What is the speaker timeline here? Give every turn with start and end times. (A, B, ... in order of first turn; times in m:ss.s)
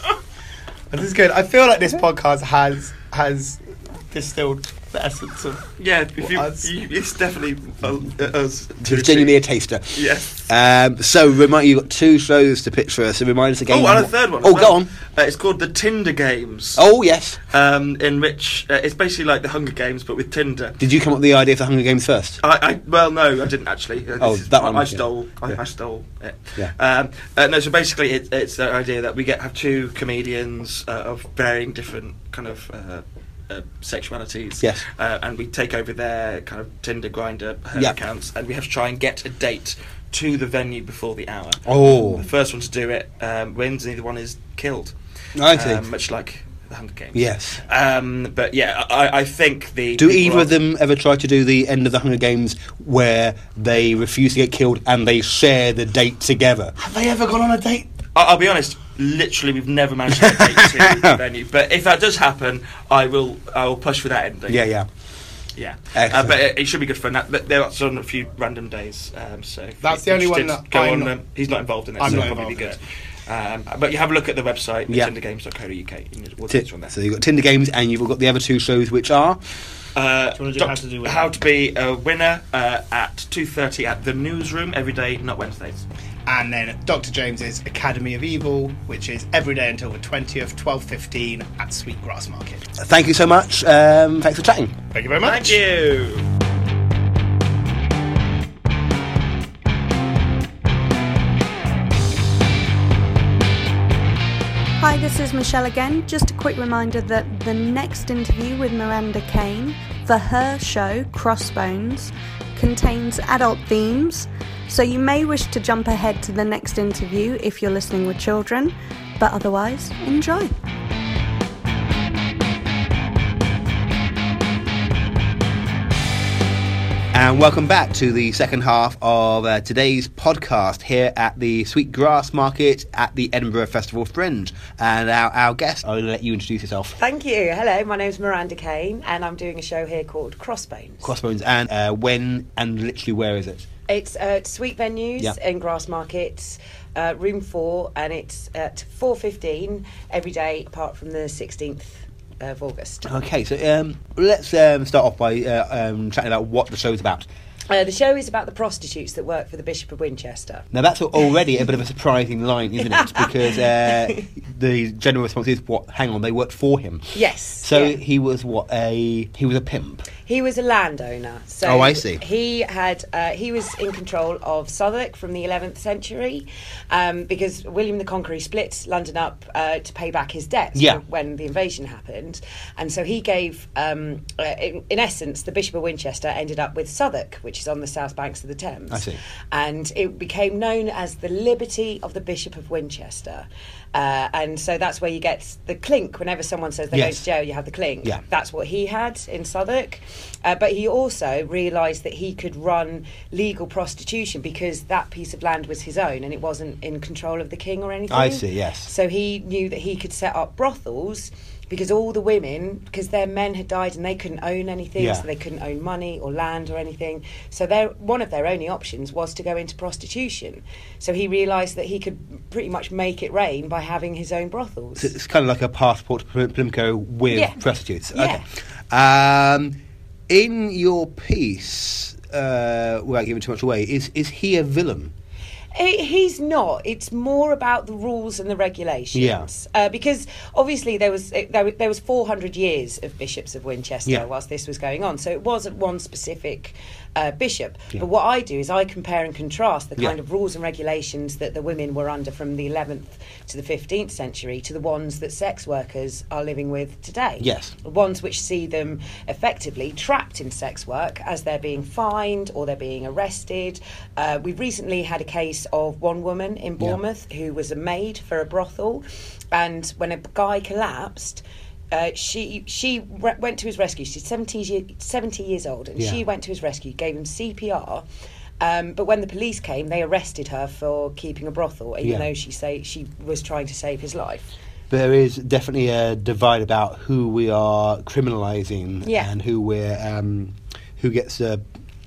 0:00.9-0:05.7 A
0:05.8-0:09.4 B
0:06.2-0:06.7 A
0:08.8-0:14.9 C
0:09.9-0:10.5 B
0:13.7-0:16.8 B
0:16.8-0:17.4 C
0:17.5-0:20.8 B
0:20.8-0:22.4 C
0:22.4-0:50.5 B
0:24.2-0:25.6 C
0:41.6-0:42.2 C
0:45.4-0:45.8 C
0:47.1-0:47.6 C
0:50.0-0:56.7 C
0:56.8-0:57.9 A
0:58.1-1:04.6 B
1:00.3-1:01.2 C
1:04.5-1:04.9 C
1:05.6-1:16.9 B
1:05.9-1:06.3 C
1:09.8-1:11.1 A
1:12.0-1:12.7 A
1:12.0-1:12.4 C
1:16.5-1:19.4 C
1:19.9-1:25.8 B
1:20.3-1:21.3 A
1:26.3-1:32.6 A
1:32.8-1:34.8 C
1:34.9-1:35.6 A
1:35.2-1:36.2 B
1:44.8-2:00.5 D
2:07.1-2:17.0 C
2:17.0-2:21.1 E
2:21.0-2:23.6 C
2:23.9-2:33.1 E
2:33.0-2:37.3 C
2:37.7-2:40.6 E
2:40.7-2:50.1 C
2:43.0-2:43.2 E
2:43.8-2:44.2 E
2:47.1-2:48.0 E
2:50.2-3:45.1 E
2:51.6-2:52.2 C
3:00.8-3:01.0 C
3:08.9-3:09.2 C
3:16.9-3:17.2 C
3:28.1-3:28.9 C
3:35.0-3:35.3 C
3:45.0-3:49.8 C
3:47.3-3:47.6 E
3:48.1-3:48.4 E
3:50.3-3:55.1 C
3:55.7-4:38.0 E
3:59.1-3:59.5 C
4:17.4-4:17.7 C
4:38.6-4:44.5 E
4:42.0-4:42.3 C
4:44.9-4:51.6 C
4:49.0-4:49.3 E